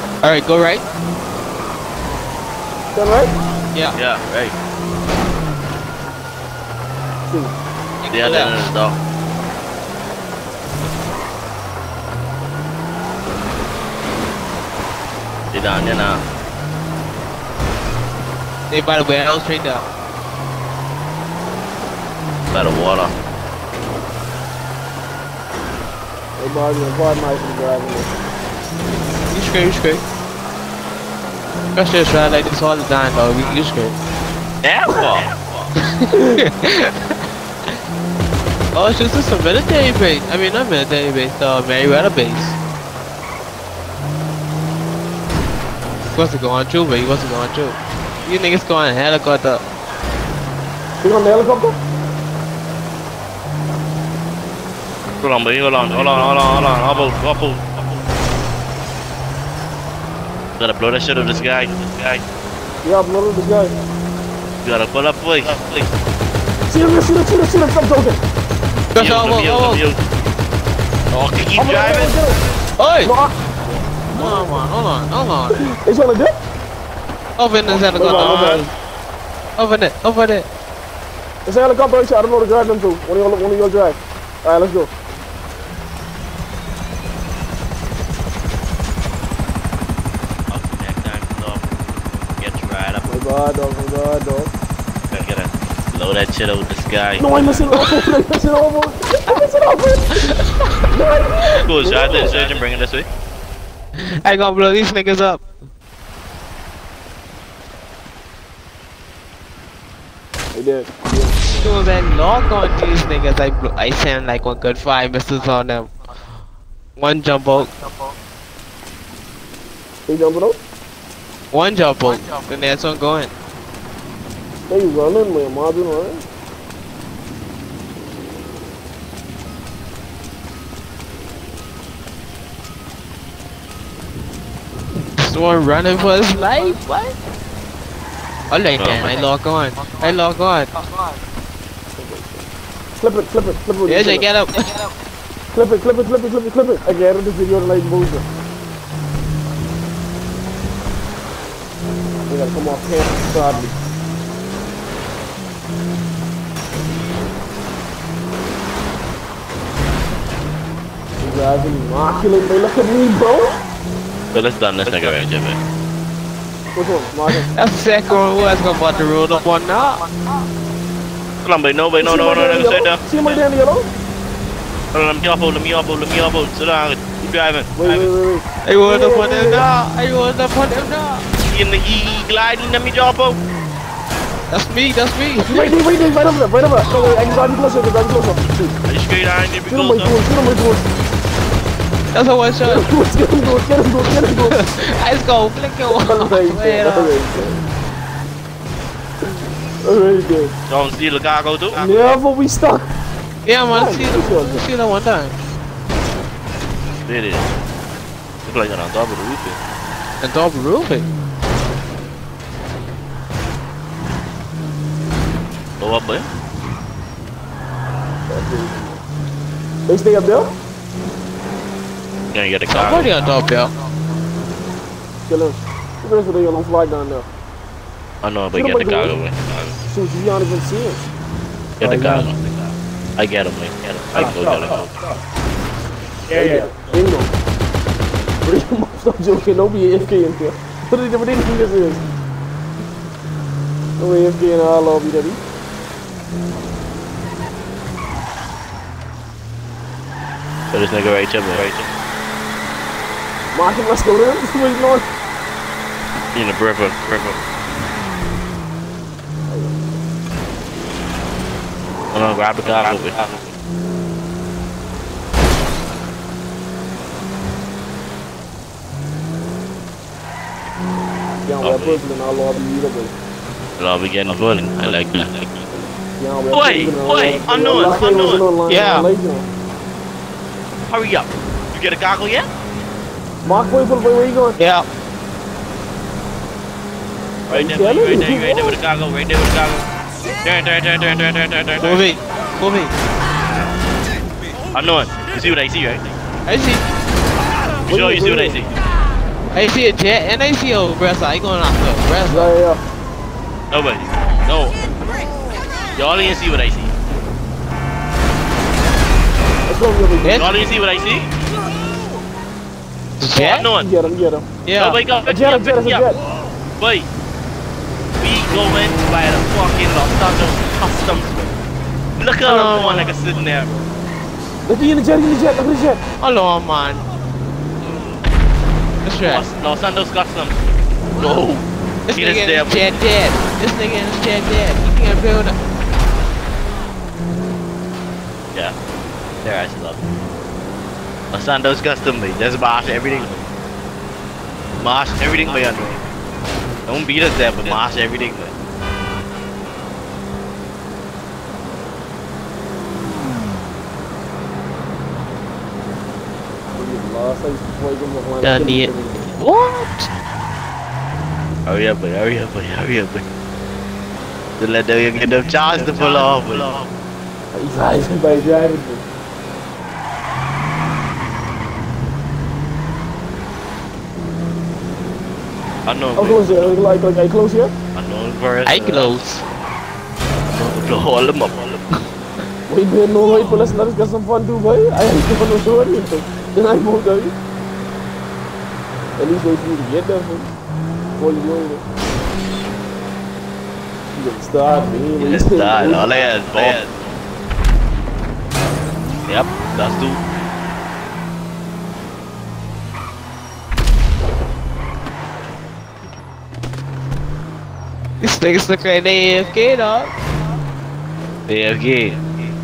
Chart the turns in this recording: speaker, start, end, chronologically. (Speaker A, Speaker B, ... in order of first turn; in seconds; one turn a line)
Speaker A: 0.2-0.8
Speaker B: 2.9-3.3
Speaker C: 3.9-4.5
Speaker B: 7.2-7.5
Speaker A: 8.0-8.6
Speaker C: 8.1-9.0
Speaker C: 15.5-16.2
Speaker A: 18.7-19.9
Speaker C: 22.5-23.1
Speaker B: 26.4-28.1
Speaker A: 29.3-30.0
Speaker A: 31.7-34.0
Speaker C: 34.6-35.7
Speaker A: 35.8-37.1
Speaker A: 38.7-42.6
Speaker A: 46.1-49.6
Speaker B: 51.0-51.8
Speaker C: 55.2-57.7
Speaker C: 60.6-62.2
Speaker B: 62.8-63.7
Speaker C: 64.6-65.9
Speaker B: 66.7-68.2
Speaker A: 68.9-69.8
Speaker C: 69.0-70.0
Speaker C: 71.1-72.1
Speaker B: 71.5-72.4
Speaker A: 72.8-73.1
Speaker B: 73.0-73.3
Speaker B: 74.1-74.6
Speaker A: 74.1-75.7
Speaker B: 75.5-76.4
Speaker A: 77.4-78.7
Speaker C: 77.7-78.6
Speaker B: 78.0-78.7
Speaker A: 79.6-80.5
Speaker B: 81.5-84.9
Speaker C: 90.5-93.0
Speaker B: 93.0-94.5
Speaker C: 95.1-97.7
Speaker B: 97.2-100.3
Speaker A: 100.2-100.8
Speaker B: 100.9-102.4
Speaker C: 101.6-103.1
Speaker A: 104.0-105.4
Speaker B: 110.5-111.5
Speaker A: 111.5-115.9
Speaker A: 117.0-117.8
Speaker B: 120.1-120.6
Speaker A: 121.5-123.3
Speaker B: 124.7-126.2
Speaker A: 135.2-137.2
Speaker A: 138.5-140.8
Speaker C: 138.8-139.2
Speaker B: 141.9-144.3
Speaker A: 143.8-144.8
Speaker B: 145.5-148.2
Speaker B: 152.3-153.8
Speaker B: 161.2-163.6
Speaker C: 164.3-165.6
Speaker B: 166.7-167.5
Speaker A: 167.3-170.0
Speaker C: 171.4-173.4
Speaker B: 172.0-173.9
Speaker C: 174.9-178.1
Speaker B: 177.7-179.7
Speaker A: 178.6-181.3
Speaker C: 181.5-183.4
Speaker A: 184.5-185.7
Speaker B: 185.4-188.8
Speaker C: 188.8-190.1
Speaker B: 189.7-190.9
Speaker A: 192.1-192.8
Speaker B: 192.7-194.6
Speaker A: 194.3-197.2
Speaker B: 195.9-197.6
Speaker B: 199.8-200.5
Speaker C: 200.7-202.2
Speaker B: 201.7-202.9
Speaker A: 203.4-205.3
Speaker B: 203.7-204.7
Speaker C: 207.0-207.5
Speaker C: 208.4-209.6
Speaker A: 210.2-211.1
Speaker C: 215.8-216.3
Speaker B: 218.2-219.0
Speaker B: 219.8-220.5
Speaker C: 222.3-223.2
Speaker A: 222.7-223.7
Speaker B: 225.3-227.3
Speaker C: 228.2-229.7
Speaker B: 228.5-229.2
Speaker B: 229.8-231.1
Speaker B: 231.8-232.3
Speaker C: 231.8-234.9
Speaker B: 236.3-237.3
Speaker B: 238.4-242.0
Speaker B: 244.0-245.4
Speaker C: 250.7-251.9
Speaker B: 253.5-255.1
Speaker C: 256.3-257.4
Speaker B: 259.5-260.0
Speaker C: 262.1-263.5
Speaker B: 271.4-273.1
Speaker C: 271.6-272.0
Speaker C: 273.8-275.4
Speaker B: 276.2-279.5
Speaker C: 276.5-278.4
Speaker A: 278.6-279.1
Speaker C: 280.9-282.5
Speaker B: 283.4-284.6
Speaker A: 284.6-284.9
Speaker C: 287.5-289.9
Speaker B: 287.5-288.8
Speaker C: 290.4-292.1
Speaker A: 291.8-292.9
Speaker C: 294.7-296.1
Speaker A: 296.4-296.9
Speaker B: 297.9-298.6
Speaker C: 297.9-298.7
Speaker A: 299.5-302.5
Speaker B: 302.2-302.8
Speaker C: 303.7-304.8
Speaker C: 305.9-306.9
Speaker B: 309.7-310.7
Speaker A: 310.2-310.6
Speaker C: 310.3-311.3
Speaker A: 313.2-313.7
Speaker C: 313.3-314.0
Speaker B: 313.7-314.5
Speaker A: 314.6-315.0
Speaker C: 314.8-316.1
Speaker B: 315.2-316.2
Speaker C: 316.8-317.1
Speaker C: 318.2-321.5
Speaker C: 322.2-323.7
Speaker A: 322.4-323.1
Speaker B: 324.6-326.0
Speaker A: 326.2-327.0
Speaker C: 327.9-328.1
Speaker A: 329.0-329.5
Speaker C: 329.2-330.6
Speaker C: 331.2-333.0
Speaker A: 332.1-335.6
Speaker C: 339.4-340.1
Speaker C: 341.3-343.5
Speaker C: 344.8-346.0
Speaker C: 346.9-348.5
Speaker B: 356.7-359.3
Speaker A: 358.4-360.1
Speaker C: 361.6-363.2
Speaker C: 364.6-366.7
Speaker B: 367.5-369.1
Speaker C: 375.9-376.8
Speaker B: 376.1-377.7
Speaker C: 377.9-379.2
Speaker A: 378.6-379.4
Speaker C: 380.5-382.0
Speaker B: 382.7-387.3
Speaker B: 389.2-390.5
Speaker B: 391.1-391.8
Speaker B: 394.1-396.8
Speaker C: 395.2-397.0
Speaker C: 399.3-400.2
Speaker A: 408.2-410.1
Speaker C: 411.5-412.2